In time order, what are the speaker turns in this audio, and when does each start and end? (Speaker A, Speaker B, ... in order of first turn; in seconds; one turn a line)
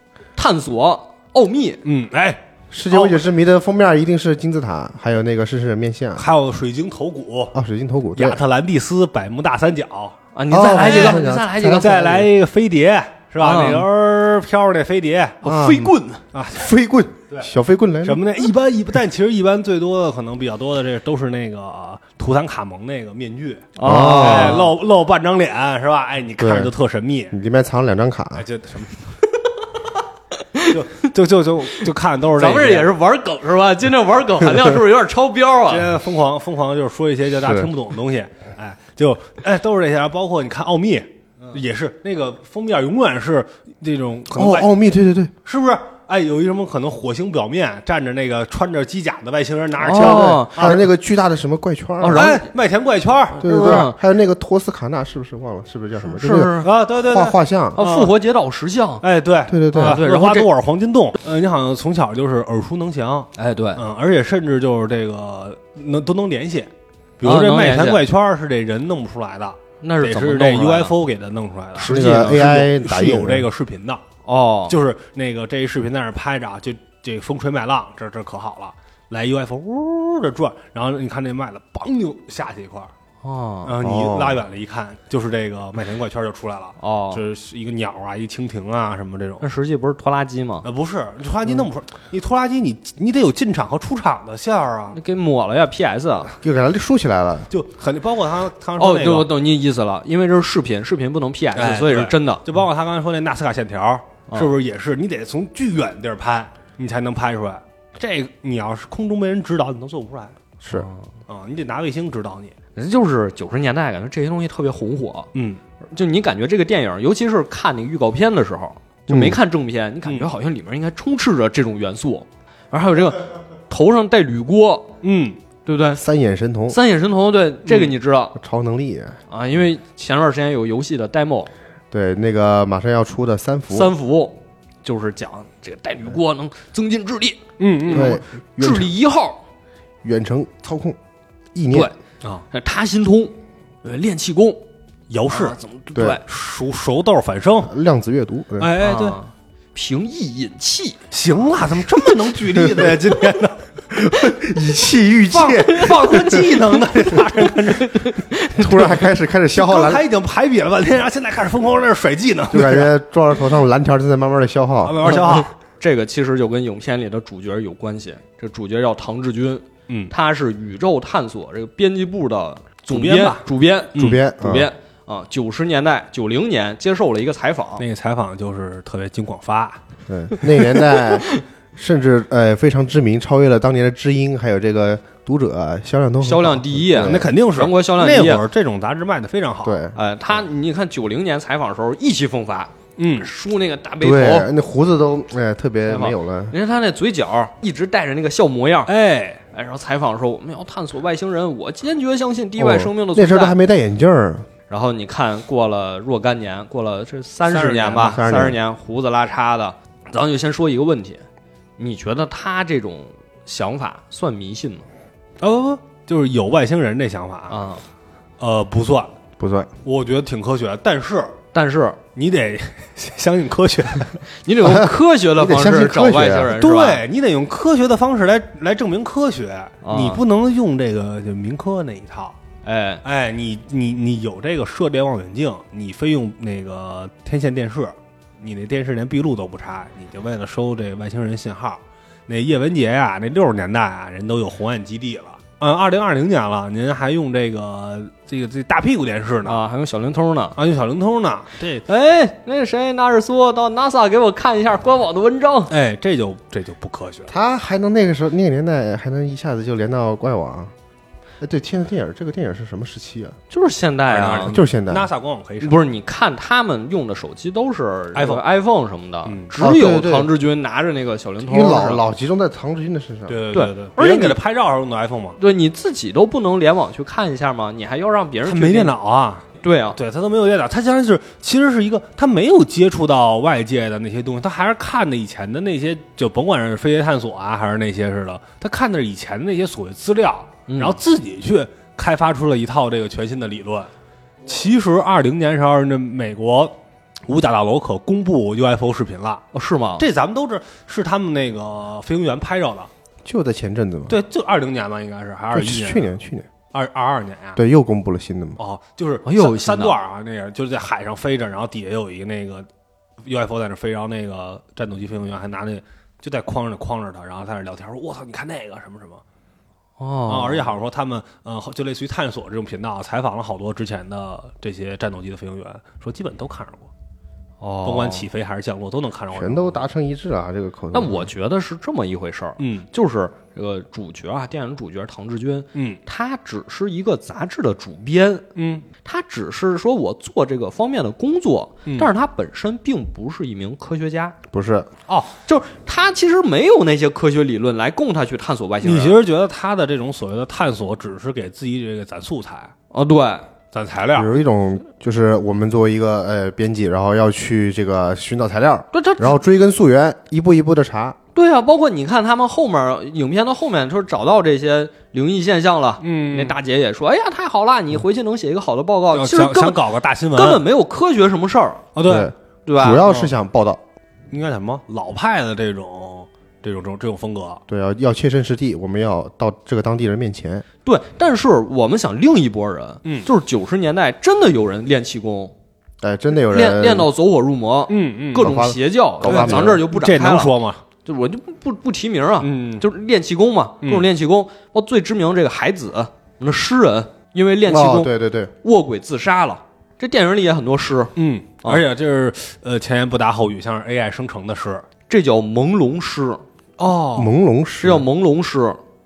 Speaker A: 0.4-1.8
Speaker B: 1.9-3.3
Speaker C: 2.7-6.3
Speaker B: 6.2-7.6
Speaker C: 7.5-8.4
Speaker B: 8.2-10.2
Speaker A: 10.3-12.1
Speaker C: 10.5-12.3
Speaker B: 10.7-11.2
Speaker B: 11.8-15.4
Speaker A: 13.4-13.9
Speaker A: 15.4-16.2
Speaker C: 15.4-15.9
Speaker B: 16.3-16.7
Speaker C: 16.5-18.2
Speaker B: 18.0-27.3
Speaker A: 23.8-24.7
Speaker C: 23.9-24.7
Speaker C: 26.4-26.7
Speaker C: 27.3-28.5
Speaker B: 28.4-29.1
Speaker A: 30.5-31.1
Speaker B: 30.7-32.9
Speaker A: 32.4-35.9
Speaker B: 35.7-44.7
Speaker C: 37.4-37.7
Speaker C: 44.3-45.3
Speaker B: 45.5-50.9
Speaker A: 49.8-50.8
Speaker C: 49.9-52.3
Speaker A: 52.0-52.5
Speaker B: 52.1-53.9
Speaker A: 53.4-54.0
Speaker C: 53.4-57.8
Speaker A: 56.0-56.7
Speaker B: 56.6-58.1
Speaker A: 57.8-59.0
Speaker B: 59.0-74.0
Speaker C: 59.5-60.0
Speaker A: 59.7-60.5
Speaker A: 63.4-63.8
Speaker A: 67.2-68.0
Speaker A: 69.8-71.0
Speaker A: 71.8-72.5
Speaker C: 71.8-73.5
Speaker A: 74.2-74.8
Speaker B: 74.7-82.9
Speaker A: 83.2-83.7
Speaker B: 83.7-89.5
Speaker C: 83.8-84.4
Speaker A: 86.8-87.2
Speaker A: 89.4-90.7
Speaker B: 90.6-95.0
Speaker A: 94.9-96.3
Speaker C: 96.4-97.5
Speaker B: 97.5-99.3
Speaker A: 98.8-102.4
Speaker B: 101.5-110.3
Speaker C: 110.6-110.9
Speaker A: 110.7-111.0
Speaker B: 111.3-112.6
Speaker A: 112.8-115.3
Speaker B: 115.3-115.6
Speaker A: 115.9-124.9
Speaker C: 119.1-119.4
Speaker B: 125.0-125.4
Speaker A: 125.7-126.0
Speaker C: 126.0-126.8
Speaker A: 126.7-128.4
Speaker B: 127.7-128.0
Speaker C: 128.4-129.2
Speaker A: 129.3-131.5
Speaker C: 131.9-133.9
Speaker A: 133.7-139.4
Speaker B: 137.6-138.2
Speaker C: 137.9-138.9
Speaker C: 140.0-141.0
Speaker C: 141.5-141.9
Speaker A: 142.5-144.7
Speaker B: 145.1-145.6
Speaker A: 145.3-146.2
Speaker C: 145.9-146.2
Speaker B: 146.3-147.7
Speaker C: 147.7-148.7
Speaker B: 148.6-149.2
Speaker A: 148.8-151.0
Speaker B: 151.1-153.6
Speaker C: 152.6-152.9
Speaker C: 153.9-156.6
Speaker B: 155.3-159.0
Speaker A: 156.0-156.6
Speaker A: 157.5-158.9
Speaker C: 158.6-160.0
Speaker B: 159.5-162.9
Speaker C: 162.5-165.2
Speaker B: 164.8-165.5
Speaker A: 165.8-177.8
Speaker B: 169.9-170.1
Speaker B: 172.9-173.4
Speaker B: 173.9-174.2
Speaker C: 174.0-174.7
Speaker B: 177.8-179.8
Speaker C: 180.1-187.3
Speaker A: 180.7-181.4
Speaker A: 186.2-188.4
Speaker B: 187.0-189.8
Speaker C: 189.6-190.0
Speaker A: 189.9-194.5
Speaker B: 193.0-193.3
Speaker C: 194.0-196.5
Speaker A: 195.9-198.9
Speaker B: 198.9-199.5
Speaker A: 199.5-203.6
Speaker C: 202.6-204.5
Speaker A: 204.7-211.2
Speaker B: 207.5-208.2
Speaker C: 208.1-208.6
Speaker A: 211.8-214.9
Speaker B: 215.4-217.6
Speaker A: 217.5-217.8
Speaker B: 218.4-219.2
Speaker C: 219.4-219.7
Speaker B: 219.8-221.3
Speaker A: 221.5-222.0
Speaker B: 222.2-224.2
Speaker A: 224.3-227.0
Speaker C: 224.6-226.5
Speaker B: 226.5-232.4
Speaker A: 229.8-230.2
Speaker A: 232.7-233.0
Speaker B: 233.0-249.6
Speaker A: 249.5-250.6
Speaker B: 250.6-251.9
Speaker A: 251.9-255.7
Speaker B: 255.7-257.3
Speaker C: 257.3-260.7
Speaker C: 261.4-263.4
Speaker A: 263.5-264.6
Speaker B: 264.1-265.9
Speaker C: 264.5-265.1
Speaker A: 265.6-272.0
Speaker B: 268.1-268.4
Speaker B: 269.3-269.5
Speaker C: 269.6-270.3
Speaker C: 271.4-273.4
Speaker B: 273.3-275.4
Speaker A: 273.5-274.4
Speaker A: 275.4-278.9
Speaker B: 278.4-293.9
Speaker A: 279.6-280.0
Speaker A: 290.7-291.0
Speaker B: 294.5-296.8
Speaker B: 297.3-299.4
Speaker A: 299.5-300.1
Speaker B: 300.0-302.9
Speaker C: 303.2-304.2
Speaker B: 304.1-306.1
Speaker C: 305.5-306.5
Speaker B: 306.7-307.6
Speaker C: 307.6-308.6
Speaker B: 308.6-312.7
Speaker A: 309.2-309.9
Speaker B: 313.3-319.2
Speaker A: 320.0-320.7
Speaker B: 320.3-326.9
Speaker A: 327.6-328.3
Speaker B: 327.8-329.9
Speaker C: 329.3-331.3
Speaker A: 330.9-338.5
Speaker B: 332.6-332.9
Speaker B: 335.8-336.0
Speaker B: 338.6-338.9
Speaker A: 339.0-344.4
Speaker C: 344.5-344.9
Speaker A: 345.5-349.2
Speaker B: 348.8-352.7
Speaker A: 352.9-353.5
Speaker B: 353.7-354.3
Speaker C: 354.1-361.2
Speaker A: 358.9-359.4
Speaker A: 361.3-369.8
Speaker B: 366.0-366.6
Speaker B: 369.1-370.6
Speaker A: 370.4-371.9
Speaker B: 372.0-372.3
Speaker C: 372.1-373.8
Speaker A: 372.7-373.1
Speaker B: 373.0-373.3
Speaker B: 374.3-377.6
Speaker C: 377.7-380.6
Speaker A: 380.9-385.5
Speaker C: 386.0-387.1
Speaker A: 386.5-390.5
Speaker B: 387.9-388.6
Speaker C: 388.4-389.8
Speaker B: 389.2-390.8
Speaker A: 391.1-398.1
Speaker B: 392.4-392.9
Speaker C: 397.7-398.5
Speaker A: 398.6-401.1
Speaker B: 401.2-404.9
Speaker A: 405.1-406.4
Speaker B: 406.8-407.3
Speaker C: 407.2-408.1
Speaker A: 407.8-408.8